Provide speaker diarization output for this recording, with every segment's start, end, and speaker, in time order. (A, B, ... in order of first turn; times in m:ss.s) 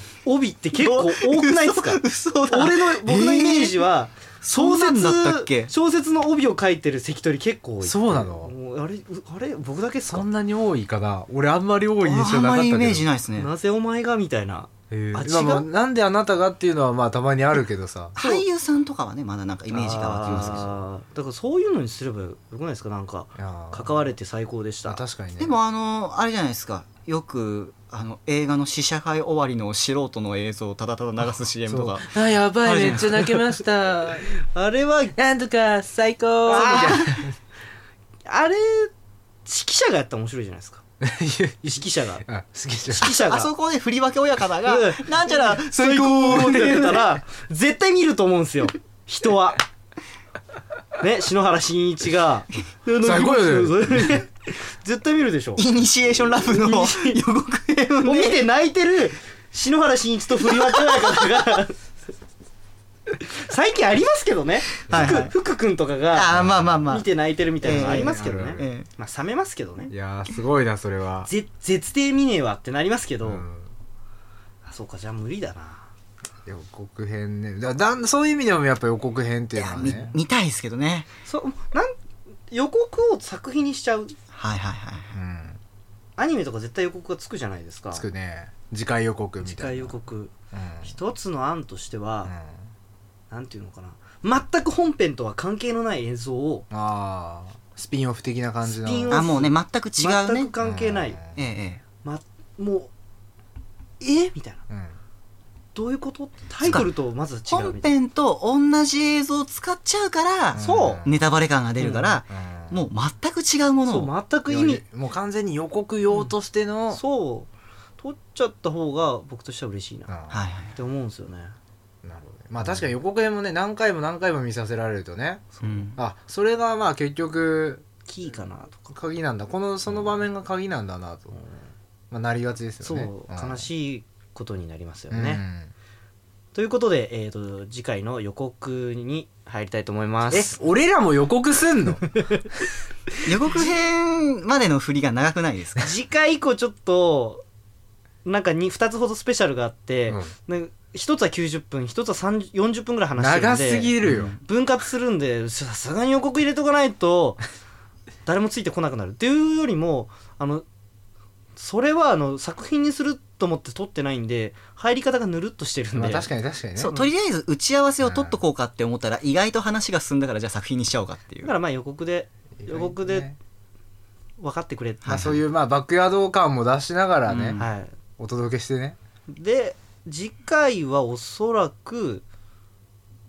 0:00.2-0:10.3 A
0:00.8-0:03.9 B
0:04.4-0:05.7 B
0:07.8-0:08.5 C
0:10.1-0:13.1 C
0:12.0-0:13.5 B
0:13.4-0:15.7 A
0:14.9-0:18.2 C
0:18.2-0:20.8 B
0:19.7-0:25.0 A
0:23.4-0:24.1 C
0:24.8-0:25.5 C
0:25.4-0:32.1 B
0:31.7-0:34.3 C
0:32.6-0:33.4 B
0:34.5-0:35.2 A
0:35.2-0:37.4 C
0:36.5-0:37.1 A
0:36.5-0:37.2 B
0:38.3-0:38.9 A
0:39.4-0:40.8 A
0:41.0-0:43.2 C
0:41.7-0:42.2 A
0:42.9-0:43.5 A
0:43.0-0:47.1 B
0:44.6-0:49.6 A
0:51.0-0:55.6 A
0:53.0-0:54.1 C
0:55.6-0:58.4 B
0:56.4-0:57.2 A
0:58.0-1:01.8 A
1:03.2-1:09.9 A
1:04.9-1:05.3 B
1:04.9-1:05.3 C
1:06.1-1:07.1 B
1:06.3-1:06.9 C
1:07.6-1:08.9 B
1:07.6-1:08.6 C
1:09.9-1:11.3 C
1:11.3-1:13.5 A
1:13.2-1:13.7 C
1:14.6-1:15.9 A
1:16.5-1:20.2 C
1:19.5-1:21.1 B
1:21.2-1:22.0 A
1:22.5-1:24.1 A
1:24.3-1:25.2 B
1:25.1-1:25.6 C
1:26.2-1:28.1 A
1:27.9-1:30.0 C
1:29.4-1:32.3 A
1:30.5-1:31.0 C
1:32.3-1:32.7 C
1:33.3-1:36.7 A
1:36.7-1:39.5 C
1:38.6-1:41.2 A
1:39.1-1:40.5 B
1:40.6-1:41.4 C
1:41.4-1:41.8 B
1:42.0-1:42.9 A
1:44.0-1:44.6 A
1:44.7-1:45.0 C
1:45.8-1:47.9 A
1:46.6-1:46.9 B
1:47.5-1:54.1 B
1:50.5-1:51.2 C
1:50.6-1:51.0 A
1:51.8-1:52.2 A
1:52.3-1:52.8 C
1:53.8-1:54.8 A
1:54.5-1:57.0 C
1:56.9-2:00.1 A
2:00.1-2:00.4 C
2:00.3-2:00.8 B
2:00.8-2:01.6 A
2:02.0-2:07.8 C
2:05.6-2:05.9 A
2:05.6-2:06.0 B
2:08.1-2:08.9 A
2:08.9-2:11.4 C
2:12.1-2:13.6 C
2:12.8-2:15.4 A
2:15.1-2:15.7 C
2:16.5-2:20.6 A
2:20.3-2:22.0 C
2:23.2-2:25.8 B
2:25.8-2:27.4 A
2:28.2-2:37.4 A
2:30.1-2:30.3 C
2:33.2-2:34.3 C
2:34.0-2:34.4 B
2:38.2-2:40.7 A
2:41.6-2:46.3 A
2:45.9-2:47.0 C
2:46.8-2:51.5 B
2:48.0-2:48.4 C
2:51.4-2:53.3 A
2:52.6-2:53.4 C
2:54.4-2:55.2 A
2:55.0-2:55.4 B
2:55.1-2:57.6 C
2:57.3-2:57.6 B
2:57.6-2:58.0 A
2:58.2-2:59.0 C
2:59.3-3:02.2 A